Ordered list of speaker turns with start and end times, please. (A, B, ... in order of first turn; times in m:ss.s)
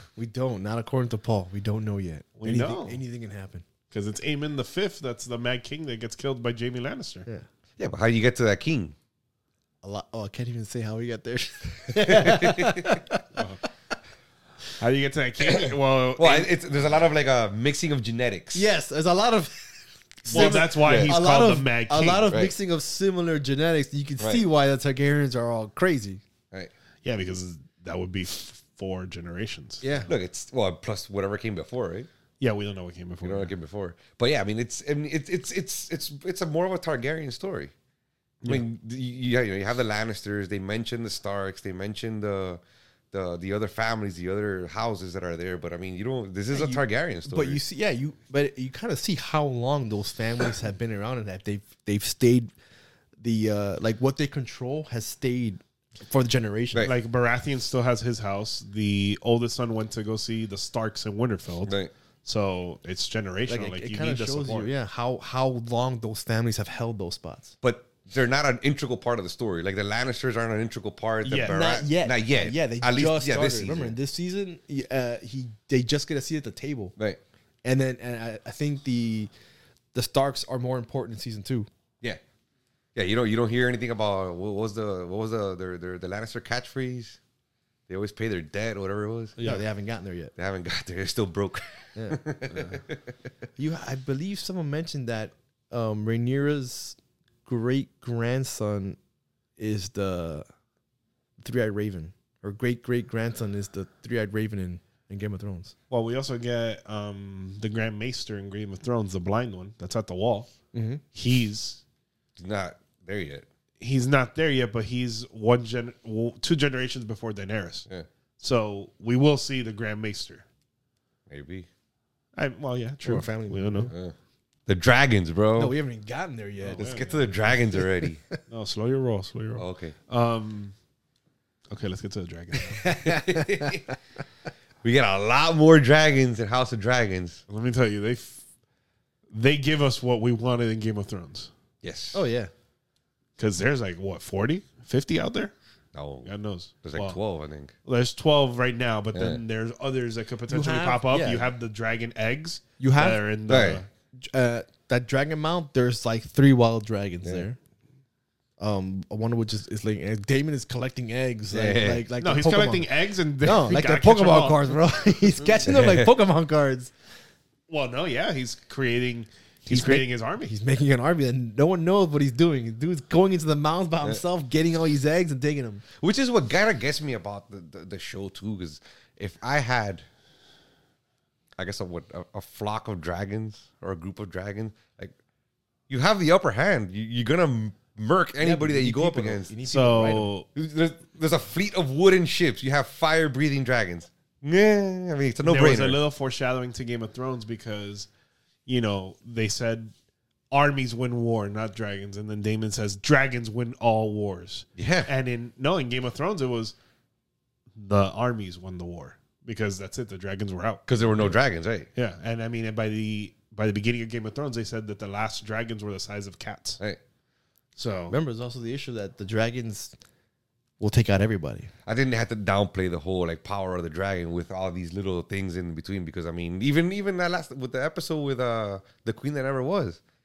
0:00.2-0:03.6 A
0:02.4-0:03.0 B
0:03.9-0:07.3 B
0:07.8-0:09.0 C
0:09.8-0:13.2 A
0:12.0-0:13.0 C
0:13.3-0:13.6 B
0:14.8-0:16.5 B
0:15.4-0:18.6 C
0:18.5-0:26.2 A
0:20.3-0:22.3 B
0:20.3-0:21.2 C
0:22.3-0:22.5 C
0:27.0-0:30.0 B
0:29.8-0:30.1 A
0:30.1-0:32.1 C
0:32.4-0:33.5 B
0:33.2-0:37.7 C
0:38.4-0:42.6 C
0:43.1-0:47.6 C
0:46.5-0:52.5 A
0:53.2-0:56.9 A
0:56.8-1:04.7 B
1:01.6-1:01.9 C
1:03.5-1:07.5 A
1:07.6-1:13.9 C
1:11.2-1:11.7 B
1:11.4-1:17.0 A
1:17.6-1:19.3 A
1:19.9-1:21.7 A
1:23.0-1:27.2 C
1:27.9-1:29.4 C
1:29.4-1:29.6 B
1:29.4-1:30.3 A
1:30.4-1:33.2 C
1:32.0-1:32.2 A
1:33.6-1:39.0 A
1:39.6-1:40.4 A
1:41.4-1:45.7 A
1:45.9-1:50.5 B
1:50.7-1:51.0 A
1:51.1-1:51.8 B
1:52.4-1:53.5 C
1:53.8-1:57.9 B
1:58.4-2:00.4 B
2:01.3-2:01.7 C
2:02.4-2:03.9 B
2:03.0-2:03.9 A
2:04.7-2:05.8 C
2:05.6-2:06.9 A
2:06.6-2:07.3 B
2:06.8-2:08.2 C
2:08.5-2:10.7 B
2:09.6-2:10.0 C
2:11.7-2:13.0 B
2:12.7-2:13.9 A
2:13.0-2:13.8 C
2:14.8-2:17.4 C
2:17.5-2:18.4 B
2:19.3-2:21.5 B
2:21.8-2:22.2 C
2:22.1-2:22.5 A
2:23.4-2:25.5 B
2:26.0-2:26.3 C
2:26.2-2:27.2 B
2:26.8-2:27.7 C
2:27.8-2:33.9 B
2:29.1-2:29.4 C
2:30.5-2:31.5 A
2:32.8-2:33.2 A
2:33.5-2:33.8 C
2:34.2-2:37.6 A
2:38.6-2:42.9 A
2:41.5-2:42.0 C
2:42.2-2:44.8 B
2:43.4-2:46.9 A
2:45.7-2:46.1 C
2:47.7-2:50.5 B
2:49.7-2:55.8 A
2:56.0-3:00.0 C
3:01.6-3:05.1 C
3:05.9-3:09.5 C
3:08.4-3:10.3 A
3:09.7-3:10.5 B
3:10.6-3:16.0 C
3:15.4-3:18.1 B
3:18.7-3:19.9 B
3:20.5-3:26.7 B
3:24.8-3:25.1 C
3:27.8-3:31.4 B
3:30.9-3:31.9 C
3:32.0-3:36.8 B
3:37.8-3:38.2 B
3:38.1-3:40.0 A
3:40.8-3:41.7 A
3:41.9-3:50.0 C